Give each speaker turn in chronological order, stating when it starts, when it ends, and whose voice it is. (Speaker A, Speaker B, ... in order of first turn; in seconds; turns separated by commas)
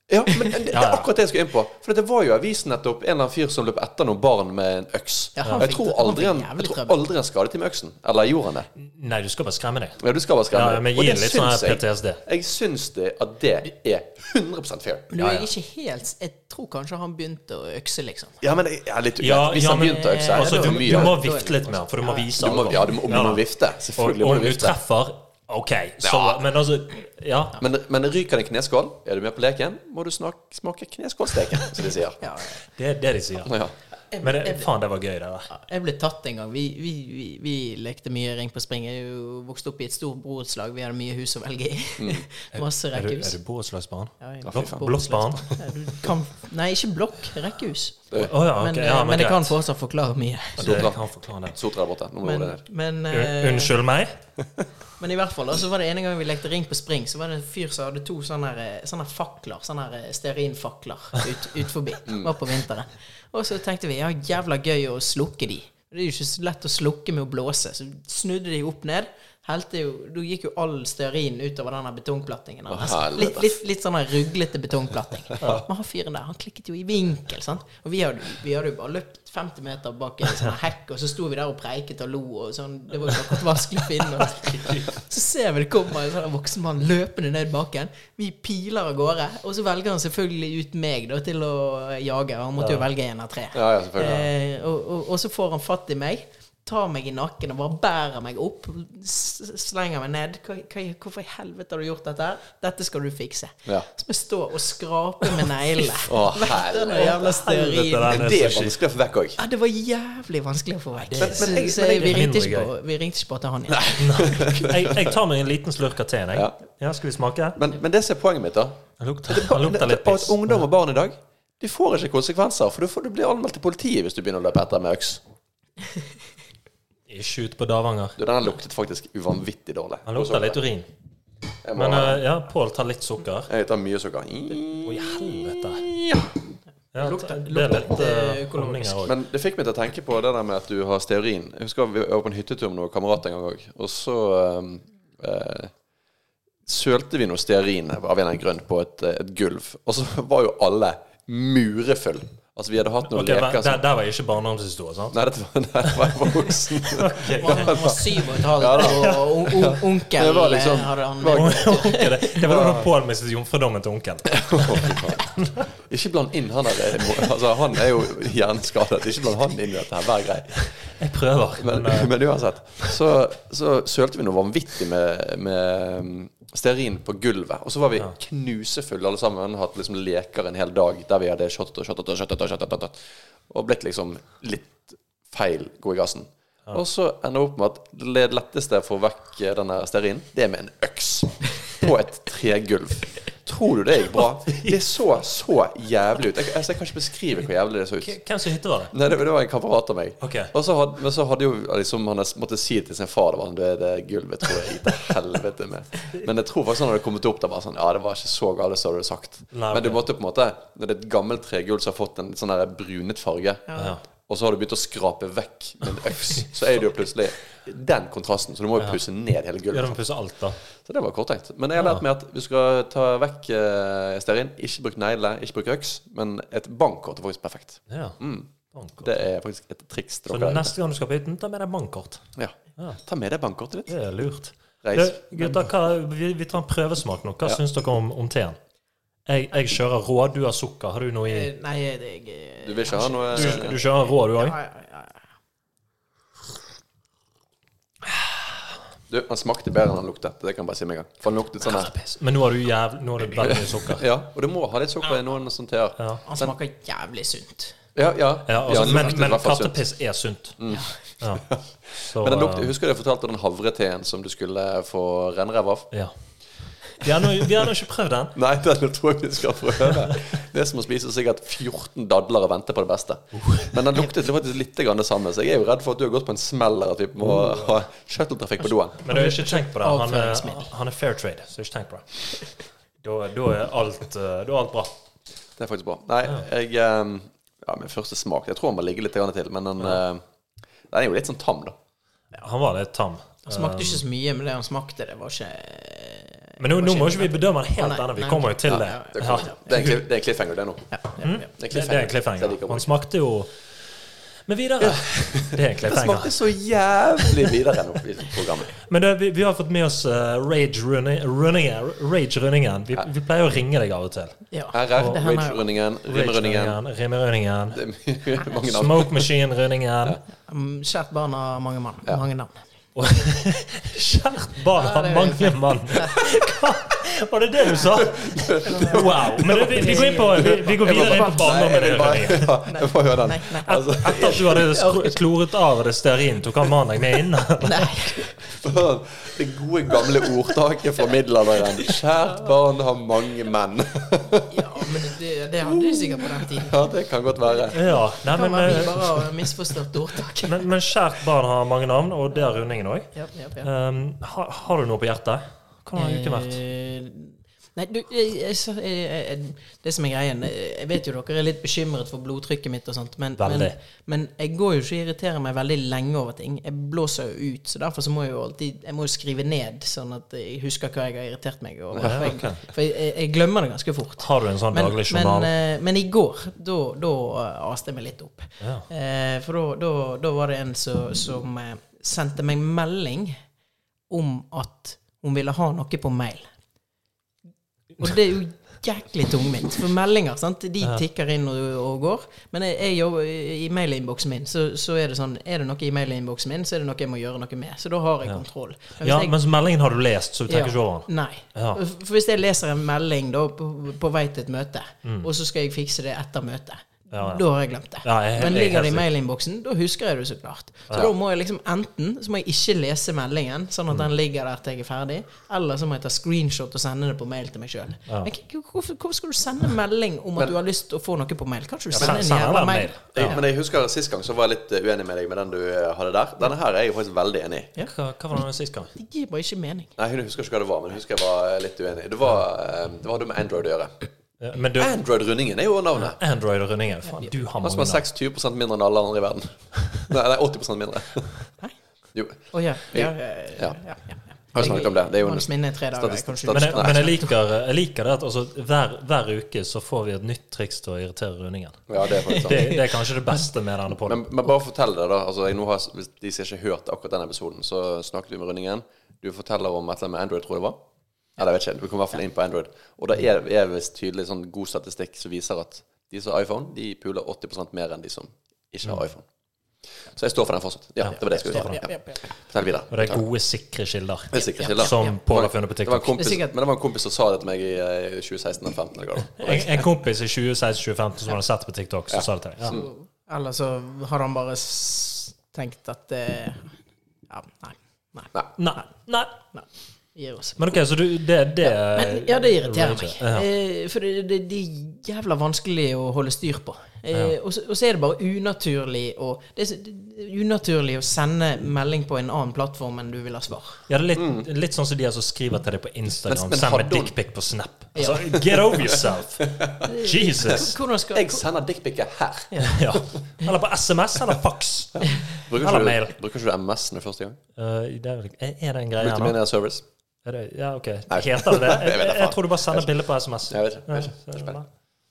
Speaker A: 0.1-8.7, Speaker B: 0.5-1.1, Speaker C: 5.4-7.0, Speaker B: 8.8-10.0, Speaker A: 10.0-15.1, Speaker B: 10.5-12.2, Speaker C: 15.1-18.4, Speaker B: 15.2-15.5, Speaker A: 18.4-21.2, Speaker B: 19.2-23.4, Speaker C: 19.8-22.3, Speaker A: 22.4-24.8, Speaker B: 24.0-27.6, Speaker A: 26.0-26.4, Speaker A: 27.6-32.2, Speaker C: 32.2-32.6, Speaker B: 32.8-33.6, Speaker A: 33.4-33.7, Speaker C: 34.1-34.7, Speaker B: 34.2-35.5, Speaker C: 35.5-43.4, Speaker A: 42.0-42.2, Speaker B: 42.5-45.6, Speaker C: 44.2-50.9, Speaker A: 44.4-44.9, Speaker B: 48.2-49.5, Speaker B: 50.6-51.6, Speaker A: 50.6-52.6, Speaker C: 52.2-53.8, Speaker B: 53.1-54.1, Speaker C: 55.0-108.2, Speaker A: 62.0-62.4, Speaker A: 72.7-73.6, Speaker B: 84.1-84.9, Speaker A: 93.5-94.3, Speaker A: 106.0-107.3, Speaker B: 106.9-108.8, Speaker A: 108.0-109.4, Speaker C: 109.4-114.4, Speaker B: 111.0-112.7, Speaker A: 111.2-111.9, Speaker A: 113.7-115.2, Speaker B: 114.0-117.6, Speaker A: 117.5-125.2, Speaker B: 119.0-120.7, Speaker B: 127.1-128.2, Speaker A: 128.2-130.6, Speaker B: 130.1-130.9, Speaker A: 131.6-132.2, Speaker B: 131.8-133.5, Speaker A: 133.5-136.4, Speaker B: 134.8-135.9, Speaker B: 136.9-139.1, Speaker C: 136.9-139.0, Speaker A: 139.0-145.7, Speaker A: 146.7-153.8, Speaker B: 153.1-155.2, Speaker A: 155.1-161.8, Speaker B: 156.8-158.0, Speaker C: 157.4-162.3, Speaker B: 158.7-159.3, Speaker B: 161.3-165.7, Speaker A: 162.4-162.9, Speaker A: 164.3-170.7, Speaker B: 170.6-172.1, Speaker A: 171.6-198.1, Speaker B: 194.5-194.8, Speaker B: 198.0-198.9, Speaker A: 198.9-213.7, Speaker B: 200.2-200.5, Speaker B: 209.5-210.0, Speaker C: 213.7-213.9, Speaker B: 213.8-214.0, Speaker A: 214.2-220.0, Speaker B: 219.7-220.6, Speaker A: 220.8-228.5, Speaker B: 227.9-228.2, Speaker B: 228.7-229.1, Speaker A: 229.0-230.7, Speaker B: 230.3-232.2, Speaker A: 232.4-233.9, Speaker B: 233.9-238.6, Speaker A: 234.8-235.7, Speaker B: 239.2-241.5, Speaker C: 241.2-243.8, Speaker A: 242.6-243.8, Speaker B: 243.3-244.6, Speaker C: 244.3-245.2, Speaker A: 249.1-251.9, Speaker B: 251.7-254.0, Speaker A: 253.4-256.5, Speaker C: 256.2-257.8, Speaker A: 257.9-259.8, Speaker B: 258.5-260.6, Speaker A: 260.6-265.9, Speaker B: 261.2-261.5, Speaker B: 262.0-262.7, Speaker B: 266.9-268.4, Speaker A: 268.4-279.0, Speaker B: 273.4-273.8, Speaker B: 277.2-277.7, Speaker B: 279.0-282.5, Speaker C: 279.1-280.7, Speaker B: 283.0-284.9, Speaker A: 285.6-290.2, Speaker A: 290.9-291.8, Speaker B: 292.4-294.0, Speaker C: 293.5-299.6, Speaker B: 296.6-300.0, Speaker A: 298.7-300.9, Speaker C: 300.9-301.4, Speaker B: 301.2-303.5, Speaker A: 301.5-302.9, Speaker B: 304.5-306.4, Speaker A: 304.8-308.7, Speaker B: 308.8-314.4, Speaker C: 314.5-315.6, Speaker A: 314.7-316.8, Speaker B: 316.1-317.8, Speaker A: 317.7-319.3, Speaker B: 318.4-320.2, Speaker C: 320.5-322.6, Speaker B: 322.9-332.5, Speaker C: 324.8-326.8, Speaker A: 328.0-334.7, Speaker C: 328.6-331.6, Speaker C: 332.6-333.8, Speaker B: 333.6-337.9, Speaker C: 334.3-335.1, Speaker C: 337.6-338.4, Speaker A: 338.5-344.9, Speaker C: 344.5-346.8, Speaker A: 345.6-347.9, Speaker B: 347.7-349.3, Speaker C: 347.9-350.6, Speaker B: 350.4-353.1, Speaker C: 353.1-353.7, Speaker B: 353.6-356.6, Speaker C: 355.9-383.4, Speaker B: 363.4-363.7, Speaker A: 371.9-372.4, Speaker B: 372.0-372.6, Speaker B: 374.2-375.5, Speaker B: 378.6-378.9, Speaker C: 384.1-386.5, Speaker C: 388.0-399.4, Speaker B: 399.0-401.8, Speaker C: 400.5-423.4, Speaker B: 407.1-407.4, Speaker B: 408.0-409.1, Speaker B: 421.9-423.4, Speaker A: 423.1-427.7, Speaker B: 427.9-428.9, Speaker C: 428.9-429.9, Speaker A: 430.0-433.9, Speaker B: 434.4-435.0, Speaker A: 434.8-436.2, Speaker B: 436.0-438.0, Speaker A: 437.6-441.3, Speaker A: 442.1-442.4, Speaker C: 442.5-447.3, Speaker A: 442.9-443.8, Speaker A: 444.5-447.1, Speaker B: 446.5-454.3, Speaker A: 451.9-452.8, Speaker C: 452.3-452.8, Speaker A: 454.0-460.8, Speaker A: 461.4-469.3, Speaker A: 470.1-473.2, Speaker B: 471.1-471.9, Speaker C: 471.5-472.2, Speaker B: 472.9-476.1, Speaker A: 474.3-479.9, Speaker C: 474.4-475.1, Speaker C: 476.1-476.5, Speaker B: 479.4-482.8, Speaker A: 482.1-482.9, Speaker C: 482.7-486.7, Speaker C: 487.3-488.8, Speaker B: 488.6-489.3, Speaker C: 489.5-490.8, Speaker B: 490.6-493.4, Speaker C: 491.6-503.8, Speaker B: 503.9-510.8, Speaker A: 504.1-504.4, Speaker A: 506.3-507.1, Speaker C: 507.9-508.3, Speaker A: 508.4-509.9, Speaker C: 509.8-511.4, Speaker A: 510.5-513.0, Speaker C: 512.5-512.8, Speaker B: 512.6-516.1, Speaker A: 515.0-517.4, Speaker B: 517.6-519.4, Speaker A: 519.0-519.8, Speaker B: 520.2-524.7, Speaker A: 521.1-522.9, Speaker A: 523.5-524.6